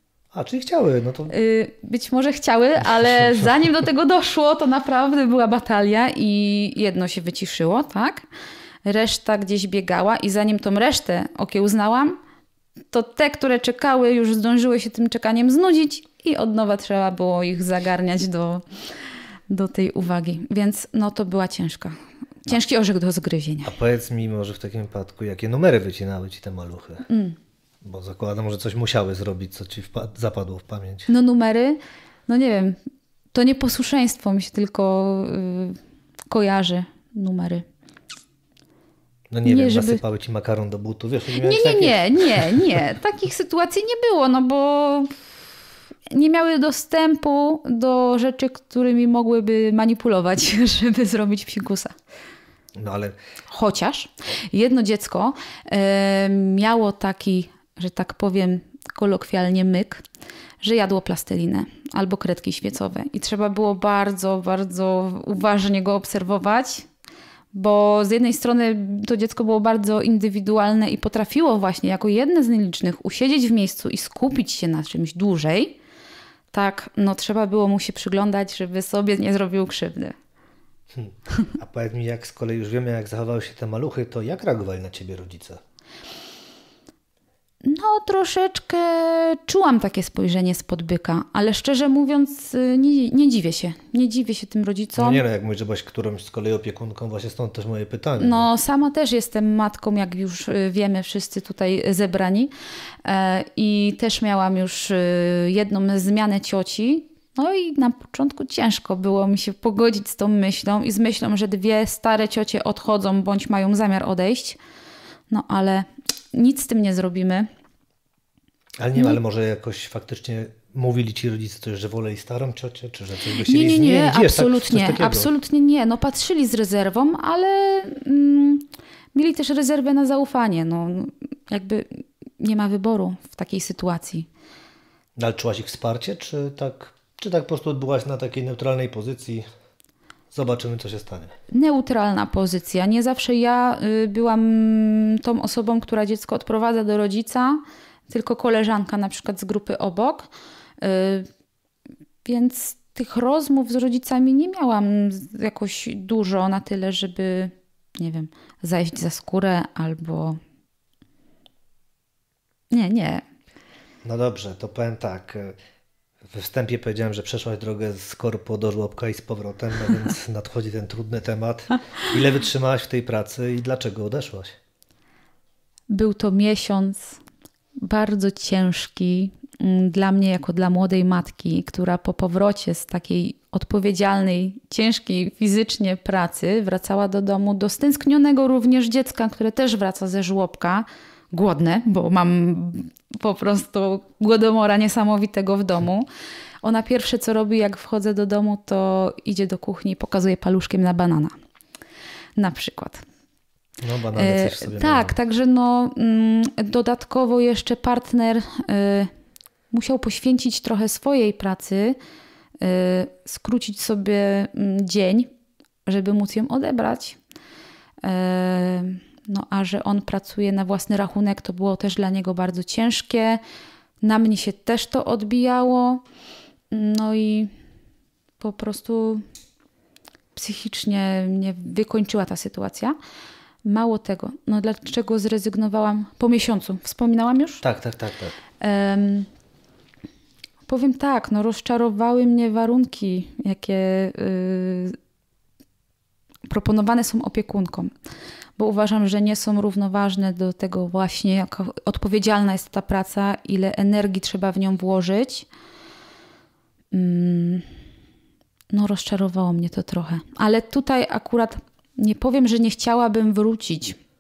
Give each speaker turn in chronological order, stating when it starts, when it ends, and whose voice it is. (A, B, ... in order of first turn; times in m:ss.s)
0:00.3-0:01.4 A
0:01.3-0:08.3 B
0:08.8-0:12.2 B
0:12.9-0:18.7 B
0:19.5-0:23.7 B
0:23.6-0:27.1 A
0:27.1-0:27.4 B
0:27.8-0:31.1 A
0:31.1-0:32.8 B
0:33.3-0:35.8 B
0:36.3-0:37.6 B
0:39.3-0:42.6 A
0:39.4-0:40.0 B
0:41.4-0:45.1 B
0:46.1-0:51.9 B
0:52.8-0:53.2 A
0:53.5-1:00.0 B
1:00.6-1:06.9 B
1:07.5-1:15.8 B
1:16.5-1:20.2 B
1:20.9-1:25.6 A
1:27.6-1:35.2 B
1:35.0-1:38.5 A
1:38.2-1:42.5 B
1:43.0-1:54.6 B
1:55.3-1:57.5 B
1:58.8-2:05.3 A
2:03.4-2:14.3 B
2:15.2-2:19.4 A
2:20.3-2:21.3 A
2:21.5-2:30.3 B
2:30.8-2:31.3 B
2:32.2-2:40.4 B
2:42.7-2:43.2 B
2:44.0-2:45.6 A
2:46.2-2:54.6 A
2:55.9-2:57.2 B
2:57.8-3:16.1 B
3:16.6-3:21.3 B
3:22.4-3:23.0 B
3:23.8-3:25.2 A
3:24.2-3:29.1 B
3:29.7-3:32.0 B
3:32.6-3:35.3 B
3:35.8-3:37.2 B
3:38.0-3:43.4 B
3:44.0-3:46.0 B
3:46.7-3:47.5 B
3:48.4-3:49.2 B
3:50.3-3:53.0 B
3:53.6-3:57.6 B
3:57.6-3:58.4 A
3:58.6-3:59.3 B
4:00.7-4:05.0 B
4:06.5-4:07.9 B
4:08.6-4:15.5 B
4:16.9-4:17.7 B
4:18.7-4:24.0 B